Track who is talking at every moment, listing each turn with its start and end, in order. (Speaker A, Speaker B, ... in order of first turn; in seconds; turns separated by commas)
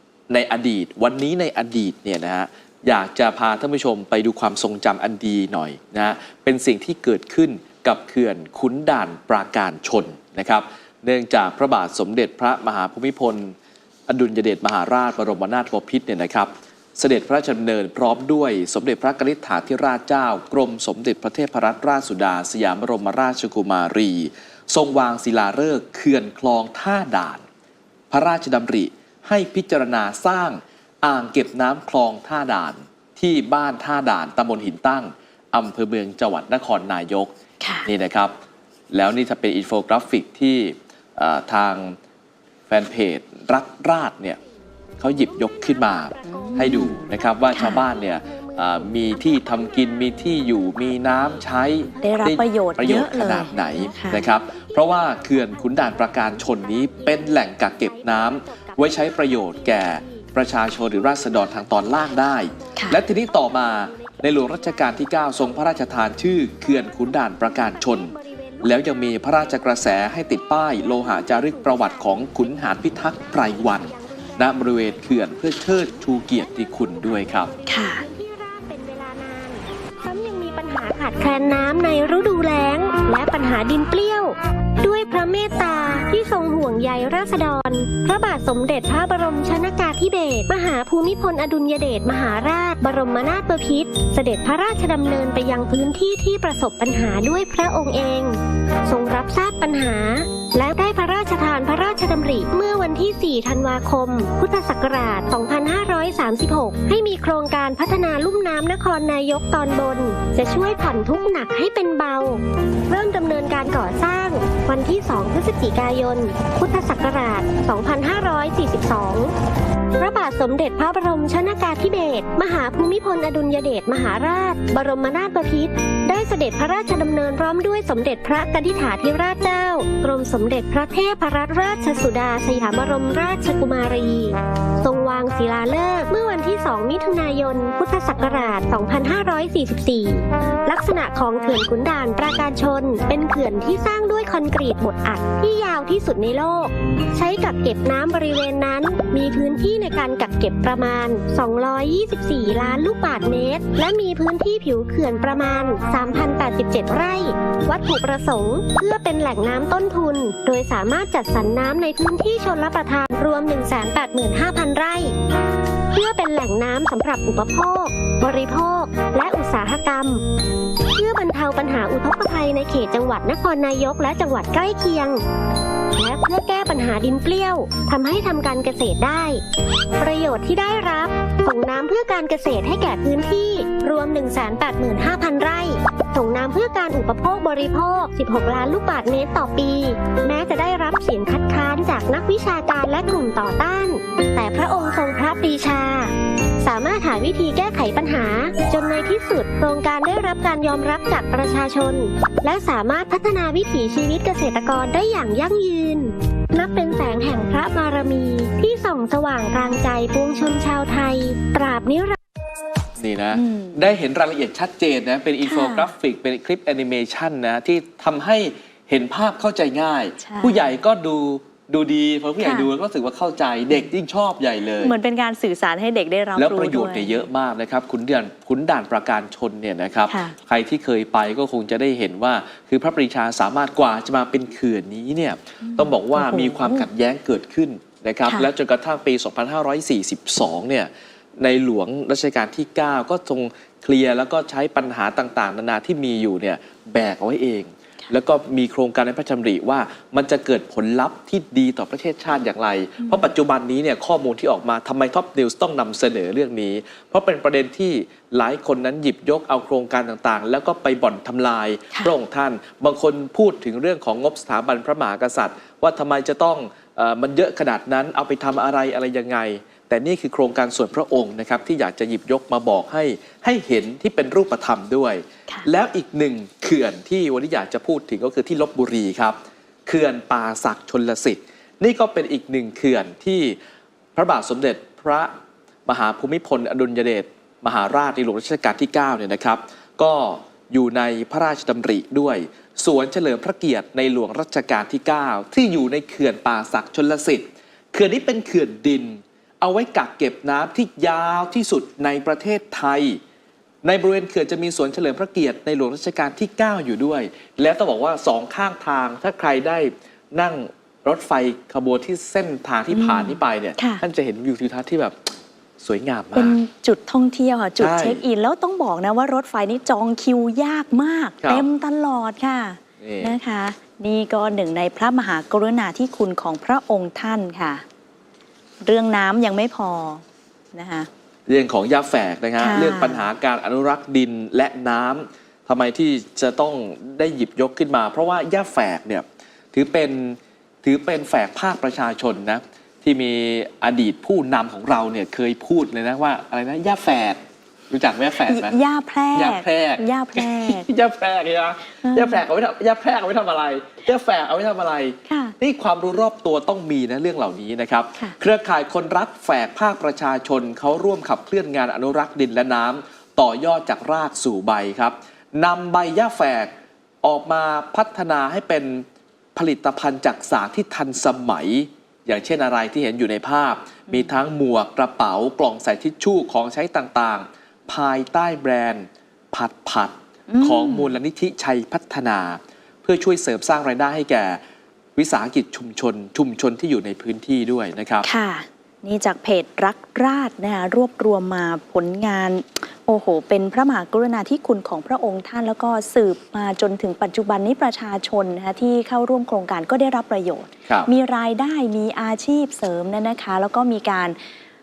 Speaker A: 0.3-13.5, Speaker A: 14.1-27.4, Speaker A: 28.1-37.3, Speaker B: 37.6-37.9, Speaker A: 37.8-38.3, Speaker A: 38.9-42.0, Speaker A: 42.7-44.4, Speaker A: 45.0-77.5, Speaker C: 45.2-52.3, Speaker B: 46.2-47.8, Speaker B: 52.0-54.2, Speaker C: 52.9-66.2, Speaker C: 67.2-119.3, Speaker B: 77.7-78.0, Speaker C: 120.0-165.1, Speaker C: 165.9-170.2, Speaker C: 170.9-175.2, Speaker C: 175.9-179.4, Speaker C: 180.0-212.2, Speaker A: 213.0-224.9, Speaker B: 213.3-213.8, Speaker B: 215.4-215.9, Speaker B: 220.2-220.6, Speaker B: 222.4-222.7, Speaker B: 224.8-227.3, Speaker A: 226.3-283.6, Speaker B: 230.1-230.3, Speaker B: 235.6-236.9, Speaker B: 253.0-253.3, Speaker A: 284.1-285.3, Speaker A: 285.9-303.2, Speaker A: 303.8-316.6, Speaker B: 312.9-314.0, Speaker B: 316.3-327.8, Speaker A: 317.8-318.2, Speaker A: 323.0-323.3, Speaker B: 328.8-331.1, Speaker A: 331.5-348.8, Speaker B: 332.6-333.3, Speaker B: 348.5-350.9, Speaker A: 349.3-369.0, Speaker B: 352.0-352.4, Speaker B: 355.3-355.5, Speaker A: 369.6-384.6, Speaker B: 374.1-374.4, Speaker B: 380.5-381.1, Speaker A: 385.1-388.3, Speaker B: 388.2-404.4